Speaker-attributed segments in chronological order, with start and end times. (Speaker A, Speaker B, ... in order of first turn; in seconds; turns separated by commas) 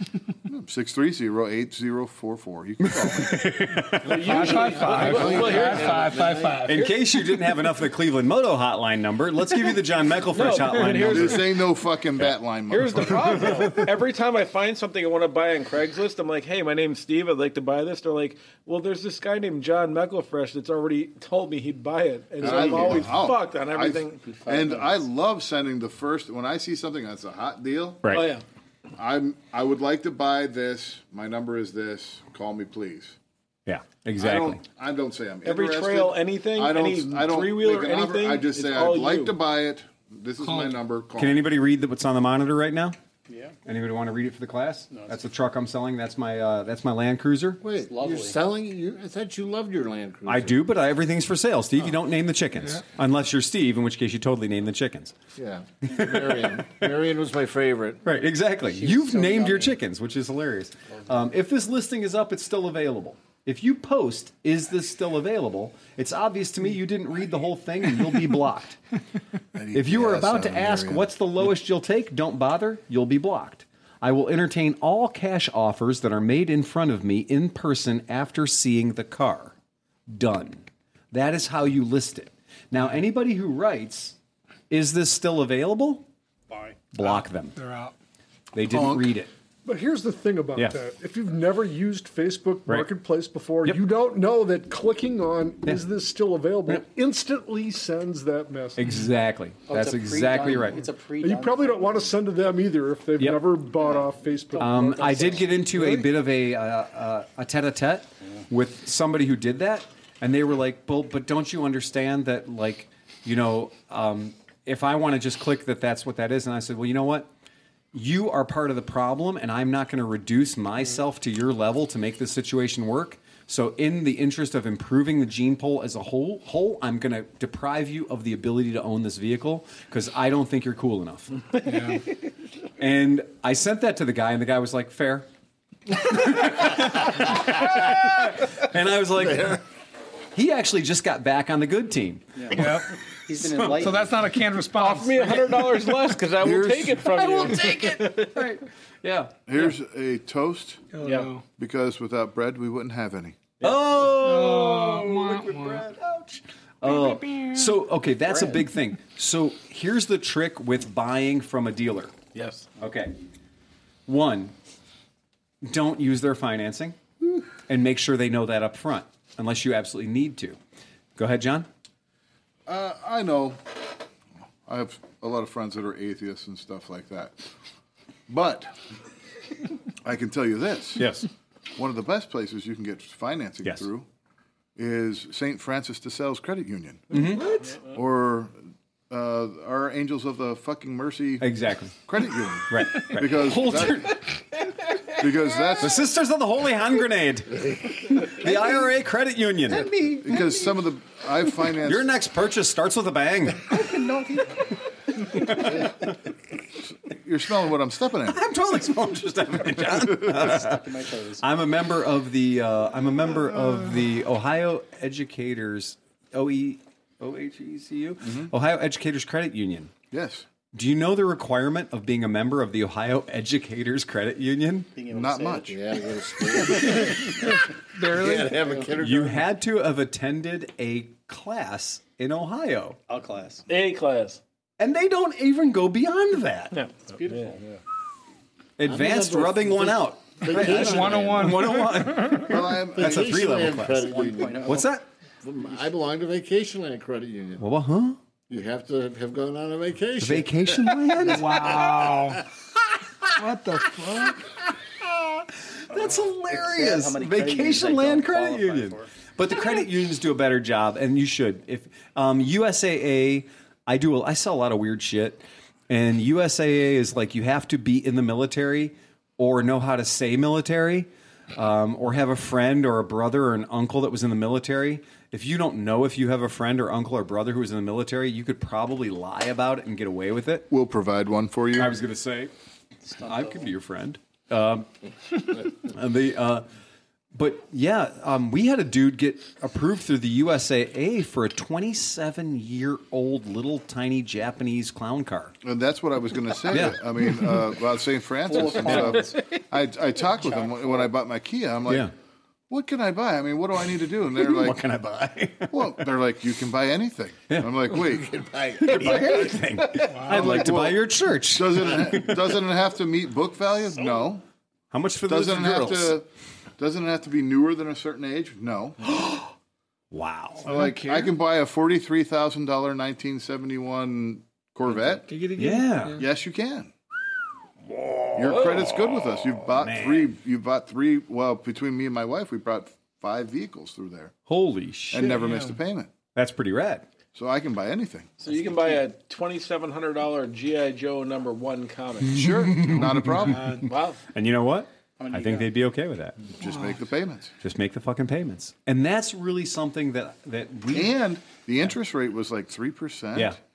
Speaker A: 0.4-3.8, Speaker B: 2.8-4.4, Speaker C: 4.0-6.9, Speaker D: 4.2-6.9, Speaker A: 5.0-5.8, Speaker E: 5.1-6.7, Speaker B: 6.6-11.4, Speaker C: 10.3-11.5, Speaker A: 10.9-13.7, Speaker C: 12.7-24.8, Speaker A: 22.4-28.1, Speaker F: 22.4-22.8, Speaker B: 28.0-28.3, Speaker C: 28.1-28.4, Speaker A: 28.9-33.1, Speaker B: 33.6-34.6, Speaker A: 34.2-41.4, Speaker C: 35.4-39.4, Speaker D: 40.4-40.7, Speaker B: 41.1-43.0, Speaker F: 43.3-43.5, Speaker B: 43.6-47.6, Speaker F: 44.9-45.2, Speaker E: 47.6-50.6, Speaker F: 47.8-48.4, Speaker B: 50.2-55.1, Speaker E: 55.4-58.0, Speaker B: 55.9-56.9, Speaker B: 58.0-68.8, Speaker F: 58.9-59.7, Speaker A: 69.5-71.1, Speaker B: 69.7-79.5, Speaker B: 80.1-84.2, Speaker B: 84.7-86.1, Speaker B: 86.9-87.6, Speaker D: 87.0-87.9, Speaker B: 88.5-89.3, Speaker A: 88.7-89.1, Speaker G: 89.6-98.8, Speaker B: 98.8-100.8, Speaker F: 99.7-102.1, Speaker G: 101.2-106.1, Speaker B: 103.2-103.5, Speaker B: 104.6-117.3, Speaker F: 105.0-105.2, Speaker B: 117.9-131.8, Speaker D: 131.6-132.0, Speaker B: 132.8-135.3, Speaker B: 135.9-139.6, Speaker B: 140.3-142.8, Speaker F: 142.4-144.2, Speaker D: 142.5-142.9, Speaker B: 143.4-143.8, Speaker D: 143.7-145.8, Speaker C: 144.7-148.4, Speaker A: 146.4-147.0, Speaker B: 147.0-149.3, Speaker A: 149.5-150.8, Speaker D: 150.9-151.4, Speaker C: 151.0-151.3, Speaker A: 151.6-153.5, Speaker B: 153.6-162.1, Speaker D: 154.2-155.8, Speaker D: 156.8-157.5, Speaker C: 162.3-162.7, Speaker B: 162.8-163.2, Speaker B: 164.1-164.5, Speaker B: 165.6-167.0, Speaker B: 167.7-170.6, Speaker B: 171.2-171.7, Speaker A: 172.7-173.6, Speaker A: 174.7-177.4, Speaker A: 178.3-178.7, Speaker A: 180.0-181.1, Speaker B: 180.9-181.3, Speaker A: 181.8-184.1, Speaker A: 184.8-188.6, Speaker B: 187.1-187.6, Speaker A: 189.1-191.5, Speaker B: 191.4-191.9, Speaker A: 192.1-194.1, Speaker B: 192.7-194.4, Speaker A: 195.2-196.0, Speaker B: 195.8-199.9, Speaker F: 199.7-200.5, Speaker A: 200.2-202.1, Speaker B: 201.8-204.0, Speaker F: 203.7-204.7, Speaker B: 205.2-205.9, Speaker A: 207.1-208.4, Speaker B: 208.2-219.9, Speaker F: 210.3-211.4, Speaker A: 218.2-218.5, Speaker A: 220.1-220.4, Speaker B: 220.7-224.9, Speaker F: 224.9-225.8, Speaker A: 225.1-225.7, Speaker E: 225.7-227.2, Speaker F: 226.6-227.2, Speaker D: 227.9-228.7, Speaker E: 228.0-229.4, Speaker B: 229.0-233.0, Speaker F: 233.1-233.7, Speaker C: 233.7-234.4, Speaker B: 234.8-236.7, Speaker C: 236.7-237.8, Speaker F: 237.1-237.6, Speaker B: 238.8-244.1, Speaker E: 238.8-241.5, Speaker D: 240.5-242.5, Speaker A: 242.4-243.3, Speaker E: 242.9-244.8, Speaker F: 243.9-244.9, Speaker B: 244.6-245.0, Speaker E: 245.4-247.6, Speaker B: 247.6-248.2, Speaker E: 248.5-251.1, Speaker B: 250.2-252.0, Speaker D: 251.3-252.4, Speaker D: 253.3-254.4, Speaker B: 254.0-254.5, Speaker B: 255.0-280.7, Speaker F: 256.5-259.1, Speaker A: 280.7-281.9, Speaker B: 281.7-282.5, Speaker F: 283.0-283.7, Speaker B: 283.2-286.6, Speaker B: 287.3-295.6, Speaker A: 295.6-302.1, Speaker B: 296.7-297.0, Speaker F: 298.4-299.6, Speaker B: 298.7-299.2, Speaker F: 300.3-301.1, Speaker B: 301.9-302.1, Speaker A: 302.7-304.8, Speaker B: 304.4-306.1, Speaker A: 305.7-309.4, Speaker E: 308.3-309.4, Speaker B: 308.8-312.5, Speaker D: 310.1-310.4, Speaker A: 310.1-314.4, Speaker B: 314.9-316.2, Speaker A: 315.3-316.2, Speaker A: 316.8-319.0, Speaker B: 319.0-319.5, Speaker B: 320.1-320.7, Speaker A: 320.6-325.3, Speaker D: 320.6-321.3, Speaker D: 325.3-326.2, Speaker B: 325.6-326.2, Speaker A: 326.1-326.9, Speaker A: 328.3-334.3, Speaker B: 328.4-330.3, Speaker C: 328.4-328.8, Speaker B: 334.5-335.4, Speaker A: 335.1-336.1, Speaker D: 335.3-335.7, Speaker B: 336.3-337.1, Speaker A: 337.3-338.3, Speaker F: 338.4-339.0, Speaker C: 338.4-342.6, Speaker A: 342.3-343.8, Speaker B: 342.3-343.7, Speaker C: 343.6-344.2, Speaker B: 344.3-346.4, Speaker F: 345.2-345.7, Speaker A: 346.6-347.5, Speaker B: 347.6-351.1, Speaker A: 350.9-353.6